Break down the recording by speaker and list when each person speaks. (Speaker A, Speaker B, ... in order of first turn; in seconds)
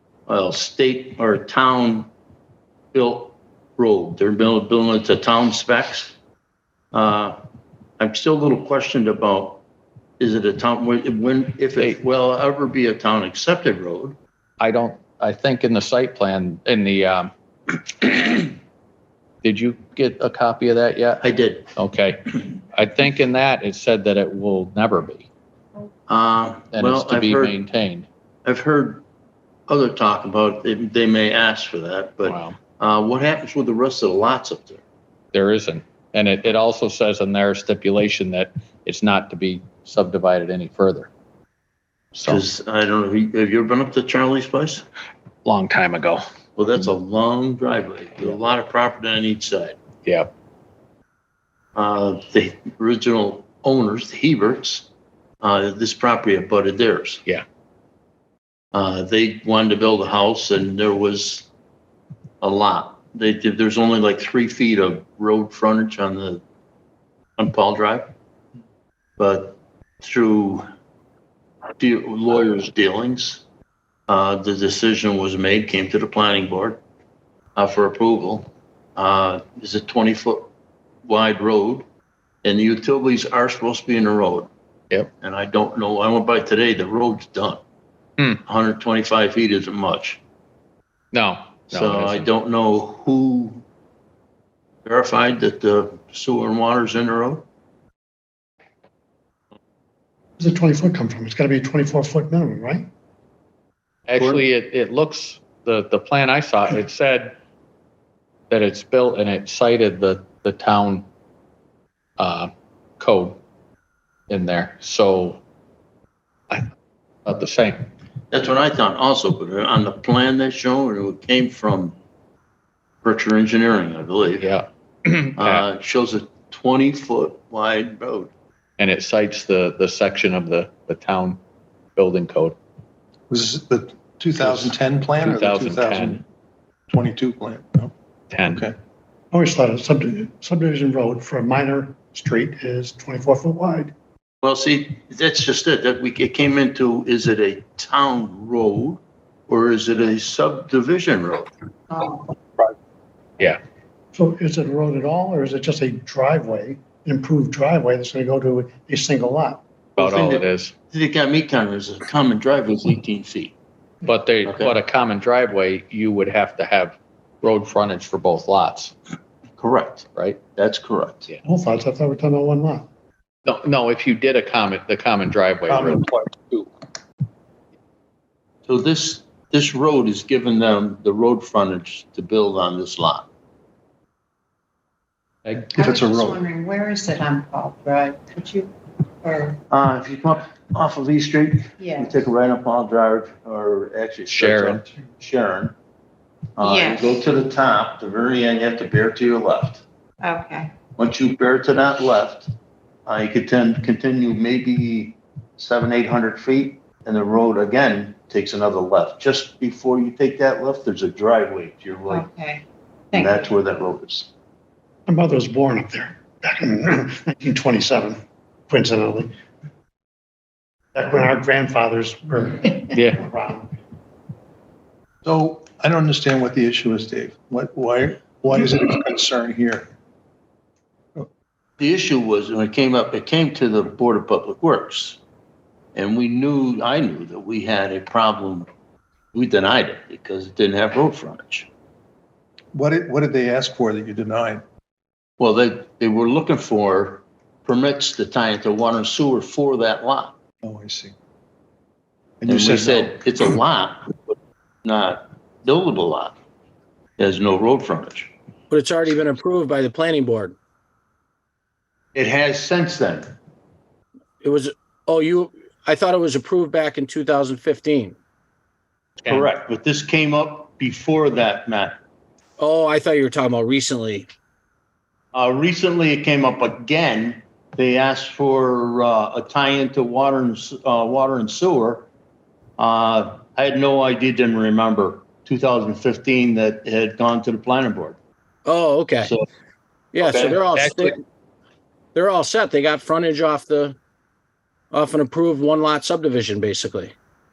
Speaker A: 0.3-2.1, 2.9-6.1, 6.9-7.4, 8.0-9.6, 10.2-14.2, 21.2-21.7, 26.1-27.6, 28.4-29.1, 29.7-34.8, 42.2-44.8, 46.6-49.8, 51.7-54.9, 55.4-57.2, 58.7-61.5, 62.4-66.4, 67.4-68.1, 69.2-70.7, 71.8-73.4, 74.1-76.8, 77.5-80.5, 81.0-81.8, 82.4-84.5, 85.2-87.6, 88.4-90.2, 91.7-93.6, 94.8-97.5, 104.2-104.4, 118.3-122.0, 123.0-124.5, 125.4-128.3, 144.4-151.5, 159.9-163.5, 164.4-164.8, 169.6-171.3, 178.7-183.3, 189.7-195.8, 196.6-199.8, 201.0-202.5, 203.1-212.3, 213.1-214.3, 231.8-235.2, 235.9-238.7, 239.3-241.7, 245.4-250.3, 252.5-256.4, 257.2-258.3, 262.1-263.3, 269.2-272.0, 275.3-282.1, 282.8-288.2, 290.2-290.6
Speaker B: 14.6-17.3, 17.9-18.5, 19.4-25.3, 26.7-28.1, 32.2-32.6, 35.3-41.1, 42.2-42.4, 45.5-46.2, 50.0-50.3, 91.1-92.3, 104.1-107.4, 108.5-111.1, 112.2-113.4, 114.3-115.4, 117.2-117.8, 124.4-125.7, 128.8-131.4, 131.9-132.6, 135.2-136.2, 138.3-138.7, 160.0-160.7, 164.0-168.9, 170.2-170.4, 173.4-176.1, 185.4-185.7, 194.3-194.8, 222.9-223.2
Speaker C: 100.4-102.9, 139.3-143.9, 154.1-159.6, 171.4-172.9, 215.1-218.2, 218.7-219.3, 220.9-223.7
Speaker D: 133.3-136.2, 136.9-137.9, 138.5-138.8, 175.7-176.7, 185.8-186.4, 225.2-229.9, 242.7-244.6, 250.6-251.1, 252.4-253.4
Speaker E: 185.7-188.7, 189.2-189.6, 191.8-192.2, 196.6-197.2, 200.2-200.7, 212.1-213.5
Speaker F: 258.7-260.6, 264.4-268.1, 272.6-274.3, 288.6-289.3, 290.1-291.2, 292.1-293.9, 294.9-297.1